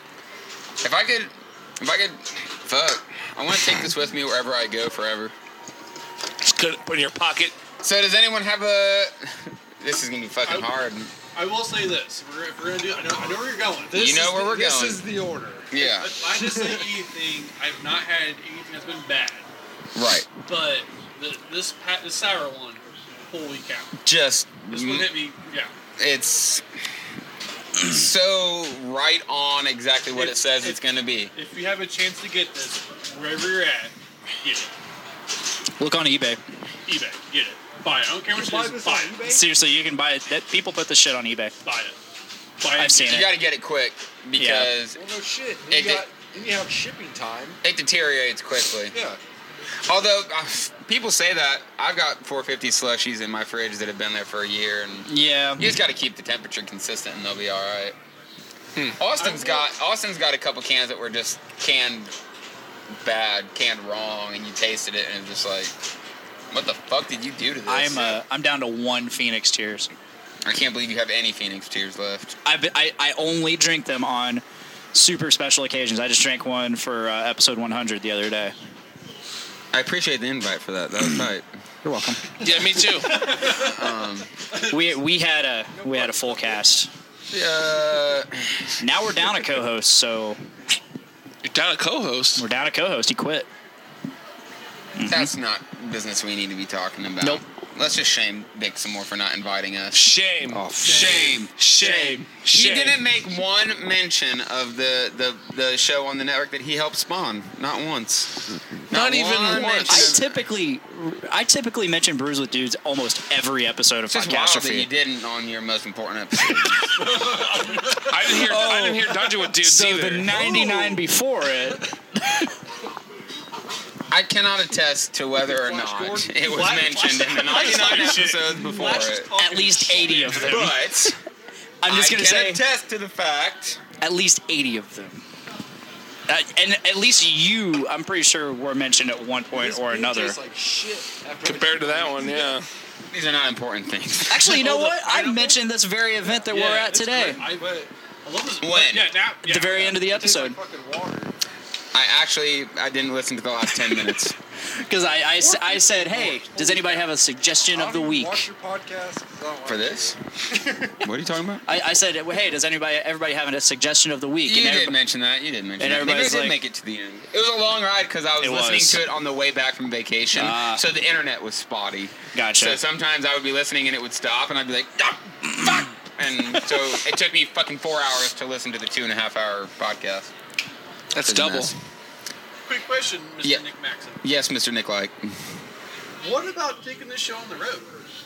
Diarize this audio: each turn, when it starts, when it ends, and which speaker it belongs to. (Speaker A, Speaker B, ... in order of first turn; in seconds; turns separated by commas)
Speaker A: 0.8-5.3, Speaker B: 6.4-7.5, Speaker A: 7.8-11.1, Speaker C: 10.4-10.7, Speaker C: 11.3-14.2, Speaker D: 13.9-15.8, Speaker A: 13.9-15.0, Speaker A: 15.7-16.1, Speaker C: 15.8-19.5, Speaker D: 16.4-16.9, Speaker A: 19.9-20.3, Speaker C: 20.4-23.9, Speaker A: 24.0-25.1, Speaker C: 24.7-25.7, Speaker A: 26.0-26.6, Speaker A: 27.8-31.3, Speaker C: 30.1-30.8, Speaker C: 31.4-34.7, Speaker E: 35.8-36.4, Speaker C: 36.9-39.2, Speaker D: 38.3-39.5, Speaker E: 39.2-41.5, Speaker C: 41.6-42.0, Speaker C: 42.6-43.3, Speaker E: 42.8-43.4, Speaker A: 43.0-45.0, Speaker E: 44.4-44.7, Speaker D: 45.0-47.6, Speaker A: 45.7-46.1, Speaker A: 47.6-48.9, Speaker D: 48.9-49.2, Speaker A: 49.9-58.0, Speaker E: 55.1-55.7, Speaker A: 59.0-62.1, Speaker C: 59.2-59.7, Speaker A: 63.0-65.7, Speaker A: 66.5-68.2, Speaker E: 67.7-69.9, Speaker A: 70.4-72.3, Speaker E: 72.5-78.5, Speaker A: 79.7-81.5, Speaker E: 81.8-82.2, Speaker B: 82.4-83.2, Speaker C: 82.4-85.0, Speaker A: 83.4-84.3, Speaker E: 84.7-86.9, Speaker D: 85.8-86.6, Speaker A: 87.3-88.3, Speaker E: 88.8-90.4, Speaker B: 91.4-92.4, Speaker E: 92.4-93.5, Speaker E: 95.0-95.3, Speaker A: 95.1-100.0, Speaker B: 99.9-100.6, Speaker E: 100.5-101.2, Speaker A: 100.8-108.3, Speaker C: 100.8-102.0, Speaker B: 101.6-103.0, Speaker A: 108.9-110.3, Speaker B: 108.9-110.2, Speaker E: 109.9-114.9, Speaker A: 114.1-117.0, Speaker C: 116.9-118.7, Speaker B: 118.1-120.3, Speaker E: 118.4-122.4, Speaker C: 120.3-120.9, Speaker A: 124.1-129.3, Speaker D: 125.5-126.4, Speaker C: 126.3-130.8, Speaker E: 129.4-130.9, Speaker A: 130.3-131.2, Speaker E: 131.8-132.6, Speaker A: 131.8-133.8, Speaker E: 134.0-135.2, Speaker E: 136.3-140.4, Speaker D: 139.5-142.6, Speaker B: 141.4-142.7, Speaker A: 143.1-145.0, Speaker E: 144.3-147.4, Speaker C: 144.5-145.6, Speaker C: 146.5-147.7, Speaker D: 147.4-147.9, Speaker C: 148.2-150.0, Speaker A: 148.6-149.1, Speaker E: 149.4-150.6, Speaker D: 149.9-151.3, Speaker A: 151.9-154.3, Speaker E: 154.9-158.5, Speaker D: 155.4-157.0, Speaker D: 157.7-160.9, Speaker A: 159.7-160.2, Speaker A: 161.0-161.7, Speaker E: 161.7-165.0, Speaker A: 164.4-180.3, Speaker E: 165.8-166.6, Speaker E: 168.4-169.0, Speaker E: 170.3-170.8, Speaker E: 172.3-172.8, Speaker B: 181.1-181.8, Speaker A: 181.2-181.7, Speaker C: 182.7-184.2, Speaker A: 184.2-185.4, Speaker C: 186.2-187.9